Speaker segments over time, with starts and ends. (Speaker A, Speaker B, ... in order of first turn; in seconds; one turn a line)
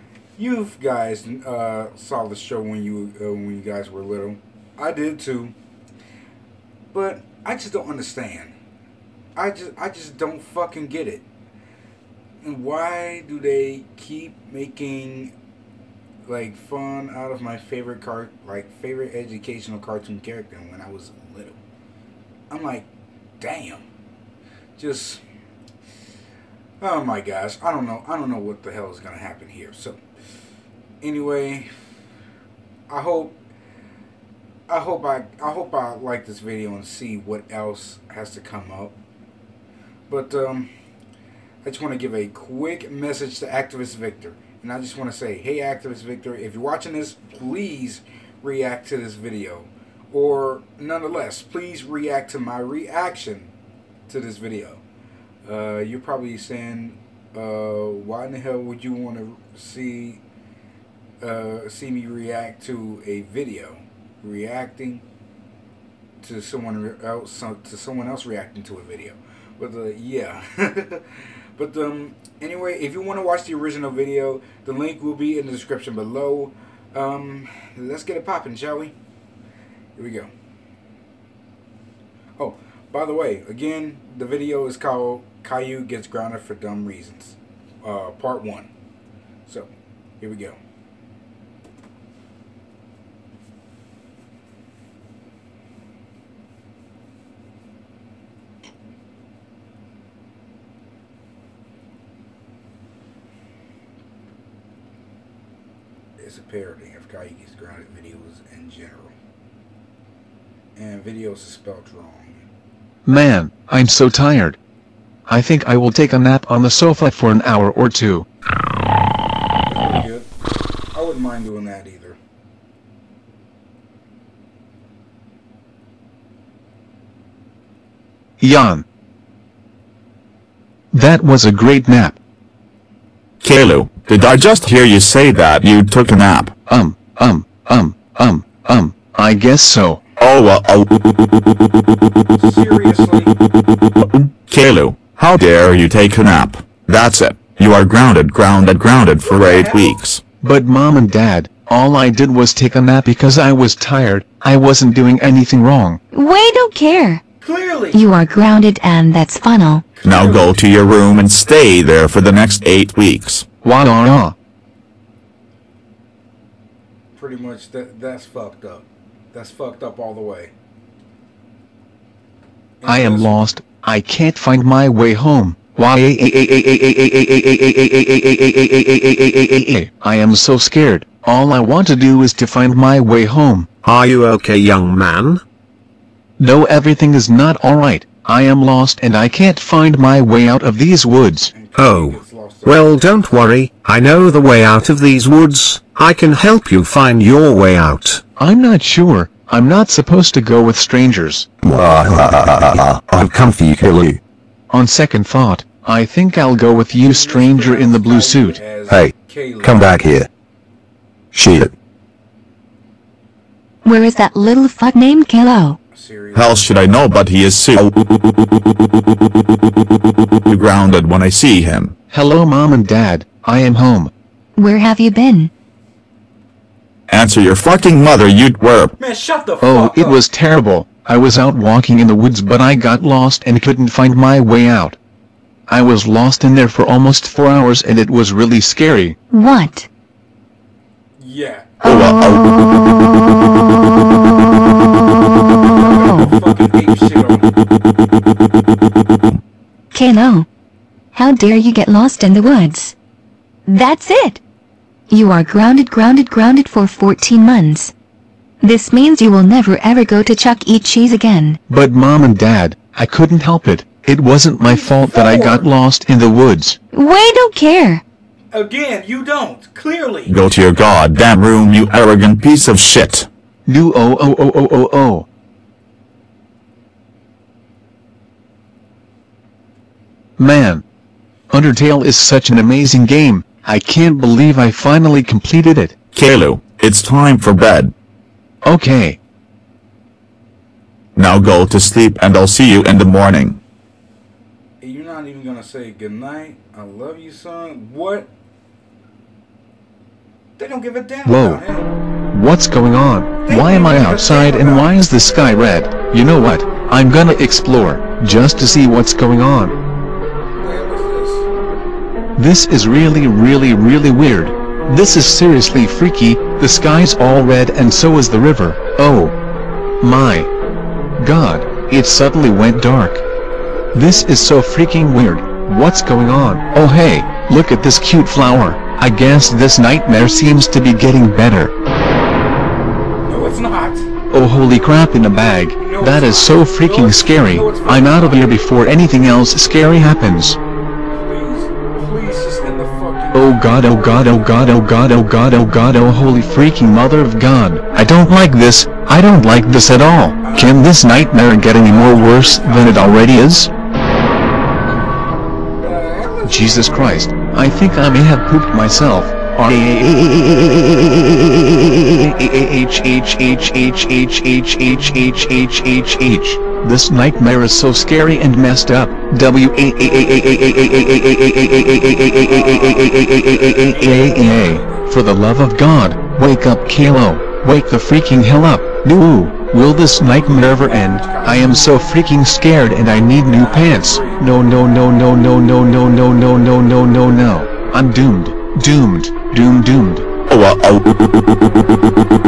Speaker A: 0.4-5.5
Speaker A: 6.9-8.5
Speaker A: 9.3-11.2
Speaker A: 12.4-15.3
Speaker A: 16.2-21.6
Speaker A: 22.5-22.9
Speaker A: 23.4-23.8
Speaker A: 24.8-25.2
Speaker A: 26.8-30.0
Speaker A: 31.0-31.7
Speaker A: 32.9-33.4
Speaker A: 34.7-39.0
Speaker A: 40.1-40.7
Speaker A: 41.6-53.5
Speaker A: 54.1-54.8
Speaker A: 55.4-60.2
Speaker A: 61.2-65.0
Speaker A: 66.2-78.9
Speaker A: 80.0-80.3
Speaker A: 82.4-88.7
Speaker A: 89.5-90.6
Speaker A: 106.2-109.2
Speaker A: 110.8-112.4
Speaker B: 113.0-114.6
Speaker B: 115.3-118.2
Speaker A: 119.7-120.3
Speaker A: 120.9-122.2
Speaker B: 128.4-128.8
Speaker B: 130.9-132.2
Speaker C: 133.4-136.5
Speaker B: 136.7-140.0
Speaker C: 140.2-140.9
Speaker A: 142.4-143.3
Speaker C: 144.0-150.2
Speaker A: 149.2-150.0
Speaker B: 150.4-156.0
Speaker D: 156.1-157.2
Speaker A: 157.4-158.0
Speaker D: 157.9-159.9
Speaker A: 159.9-160.7
Speaker C: 160.0-163.4
Speaker B: 163.6-164.3
Speaker A: 167.1-170.5
Speaker A: 172.8-173.6
Speaker B: 172.8-183.7
Speaker E: 183.8-185.4
Speaker B: 186.4-191.5
Speaker A: 191.5-193.3
Speaker E: 191.7-198.2
Speaker B: 198.4-201.5
Speaker E: 201.6-204.2
Speaker B: 204.7-208.6
Speaker A: 206.9-210.0
Speaker E: 208.9-210.3
Speaker E: 211.3-211.7
Speaker D: 213.8-215.8
Speaker A: 215.9-216.8
Speaker C: 216.3-217.9
Speaker C: 220.5-221.9
Speaker B: 222.1-224.1
Speaker D: 224.6-225.5
Speaker C: 227.1-228.9
Speaker A: 229.0-230.2
Speaker B: 229.6-235.0
Speaker B: 235.7-239.2
Speaker D: 239.3-239.9
Speaker A: 241.2-241.7
Speaker D: 241.8-246.3
Speaker C: 241.8-242.6
Speaker A: 245.7-247.5
Speaker D: 249.9-250.4
Speaker D: 251.1-252.9
Speaker D: 253.7-254.4
Speaker D: 255.1-257.9
Speaker D: 258.6-261.6
Speaker B: 261.7-266.8
Speaker A: 264.6-265.7
Speaker D: 266.9-268.0
Speaker A: 268.5-270.4
Speaker C: 270.2-273.3
Speaker B: 273.7-275.2
Speaker B: 280.4-280.8
Speaker B: 281.5-285.9
Speaker C: 286.1-287.9
Speaker B: 288.6-289.2
Speaker C: 291.1-293.6
Speaker A: 294.8-298.3
Speaker A: 300.6-301.9
Speaker B: 301.2-301.6
Speaker B: 302.3-309.7
Speaker A: 303.4-304.9
Speaker A: 310.6-311.5
Speaker B: 312.4-319.3
Speaker B: 320.0-320.5
Speaker B: 321.2-323.2
Speaker B: 323.9-331.7
Speaker A: 326.7-327.2
Speaker A: 333.2-334.1
Speaker B: 334.3-340.6
Speaker A: 335.8-338.6
Speaker A: 341.1-344.9
Speaker B: 343.3-353.7
Speaker A: 350.4-353.3
Speaker A: 355.8-356.9
Speaker B: 356.4-390.2
Speaker A: 372.4-375.1
Speaker A: 380.1-381.8
Speaker A: 383.5-384.5
Speaker C: 390.5-391.0